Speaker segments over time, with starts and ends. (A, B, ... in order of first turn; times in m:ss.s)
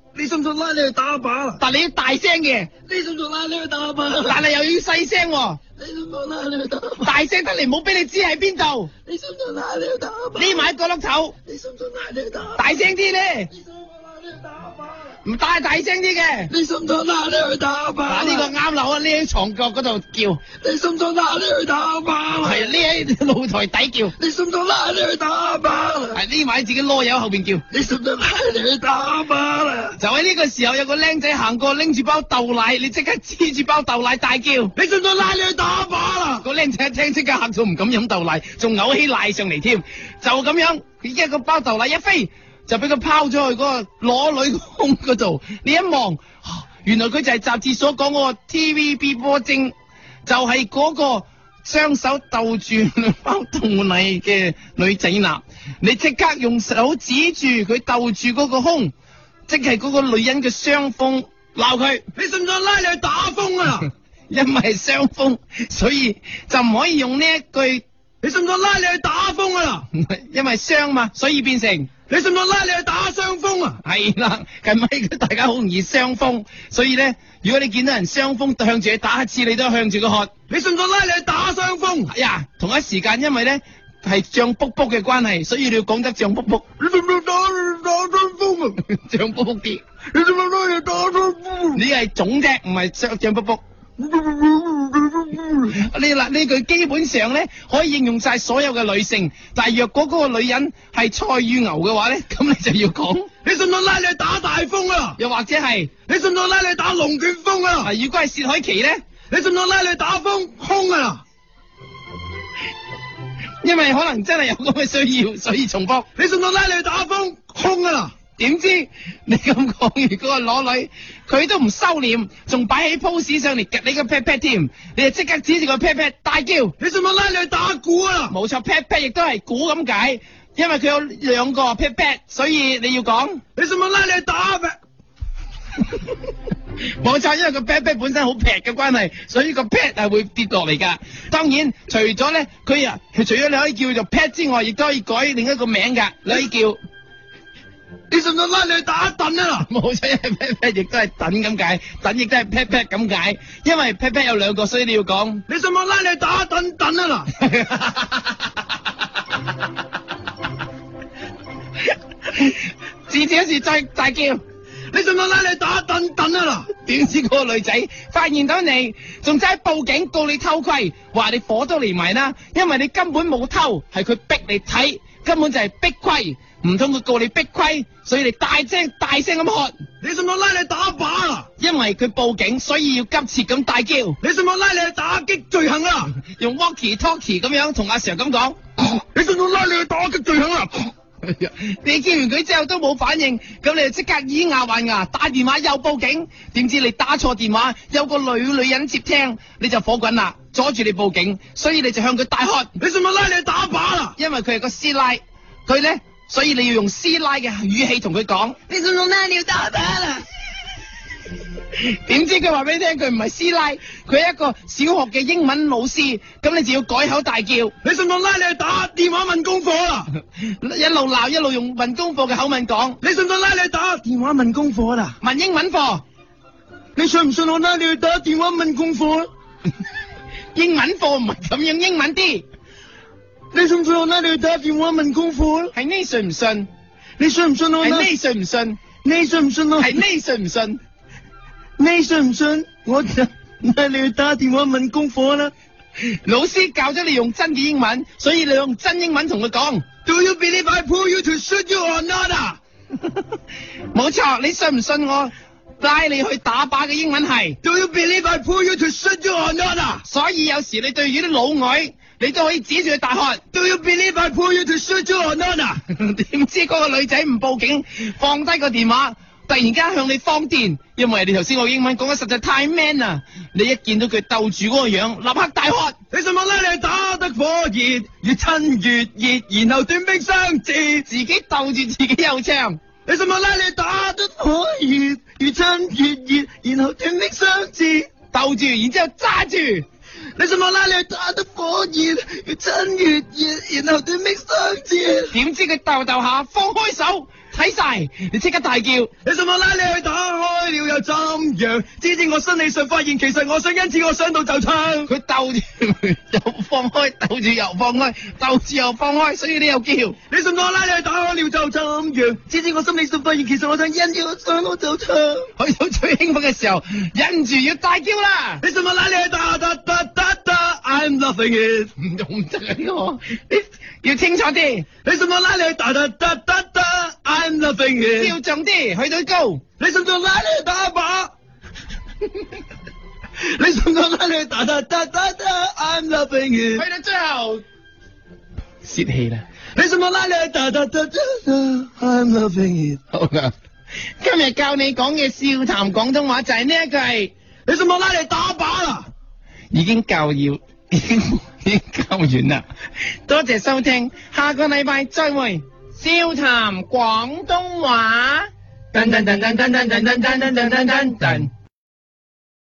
0:00.2-0:01.6 A
0:01.6-0:02.7 B
0:02.9-0:04.4 A
0:04.2-0:05.6 B
0:05.8-0:07.1 A
0:07.0-0:08.9 B
0:09.1-0:10.7 A
0:10.4-0:11.4 B
0:11.5-0:12.6 A
0:12.6-0:13.5 B
0:13.8-0:15.1 A
0:15.2-0:16.5 B
0:16.5-0:18.5 A
0:18.1-0:20.4 B
0:20.6-0:22.8 A
0:22.4-0:24.2 B
0:24.2-0:26.2 A
0:26.1-0:27.6 B
0:27.7-0:30.0 A
0:30.0-0:34.7 B
0:34.8-0:36.4 A
0:36.4-0:49.7 B
0:50.2-0:58.9 B
0:59.5-1:02.0 B
1:02.2-1:03.9 A
1:04.3-1:07.8 B
1:08.2-1:09.8 A
1:09.9-1:11.9 B
1:12.1-1:13.8 A
1:13.8-1:20.3 B
1:20.5-1:22.1 A
1:22.1-1:26.6 B
1:26.8-1:28.8 A
1:28.8-1:29.8 B
1:30.1-1:31.8 A
1:31.7-1:33.6 B
1:34.0-1:35.7 A
1:35.7-1:43.3 B
1:43.4-1:45.2 A
1:45.2-1:45.9 B
1:46.1-1:47.9 A
1:47.8-1:49.0 B
1:49.3-1:51.2 A
1:53.6-1:56.1 B
1:56.2-1:58.1 A
1:58.4-2:06.7 B
2:06.8-2:08.3 A
2:08.3-2:13.4 B
2:13.6-2:14.8 A
2:16.9-2:26.8 B
2:28.1-2:29.7 A
2:29.6-2:35.4 B
2:35.5-2:37.3 A
2:37.4-2:38.2 B
2:42.3-2:44.4 B
2:44.9-2:46.7 A
2:46.7-2:59.8 B
3:00.0-3:01.5 A
3:01.6-3:04.2 B
3:04.2-3:06.1 A
3:06.2-3:08.6 B
3:09.0-3:10.9 A
3:11.2-3:22.7 B
3:22.8-3:24.2 A
3:24.2-3:28.6 B
3:28.7-3:30.2 A
3:31.8-3:37.7 B
3:37.8-3:40.1 A
3:40.4-3:43.0 B
3:43.0-3:45.1 A
3:45.2-3:46.0 B
3:47.0-3:49.3 A
3:50.5-3:52.4 B
3:53.5-3:55.7 A
3:55.7-3:56.7 B
3:57.2-3:58.1 A
3:57.8-3:58.8 B
3:59.0-4:00.0 A
3:59.8-4:00.8 B
4:01.8-4:05.5 A
4:06.1-4:09.8 B
4:10.0-4:12.6 A
4:13.9-4:17.6 B
4:17.6-4:20.0 A
4:20.0-4:23.4 B
4:23.5-4:25.8 A
4:25.9-4:36.0 B
4:36.1-4:41.0 A
4:41.1-4:42.8 B
4:43.1-4:48.1 A
4:48.3-4:49.9 B
4:50.4-4:55.3 A
4:55.3-4:59.1 B
4:59.2-5:05.1 A
5:05.1-5:10.2 B
5:10.3-5:15.5 A
5:15.6-5:18.6 B
5:18.6-5:21.9 A
5:22.0-5:24.9 B
5:25.0-5:28.3 A
5:28.1-5:29.6 B
5:29.8-5:31.3 A
5:33.4-5:36.8 A
5:36.8-5:37.6 B
5:38.8-5:39.4 B
5:39.8-5:43.0 A
5:43.1-5:43.5 B
5:44.2-5:47.3 B
5:47.7-5:49.1 A
5:49.7-5:52.6 B
5:53.3-6:01.5 B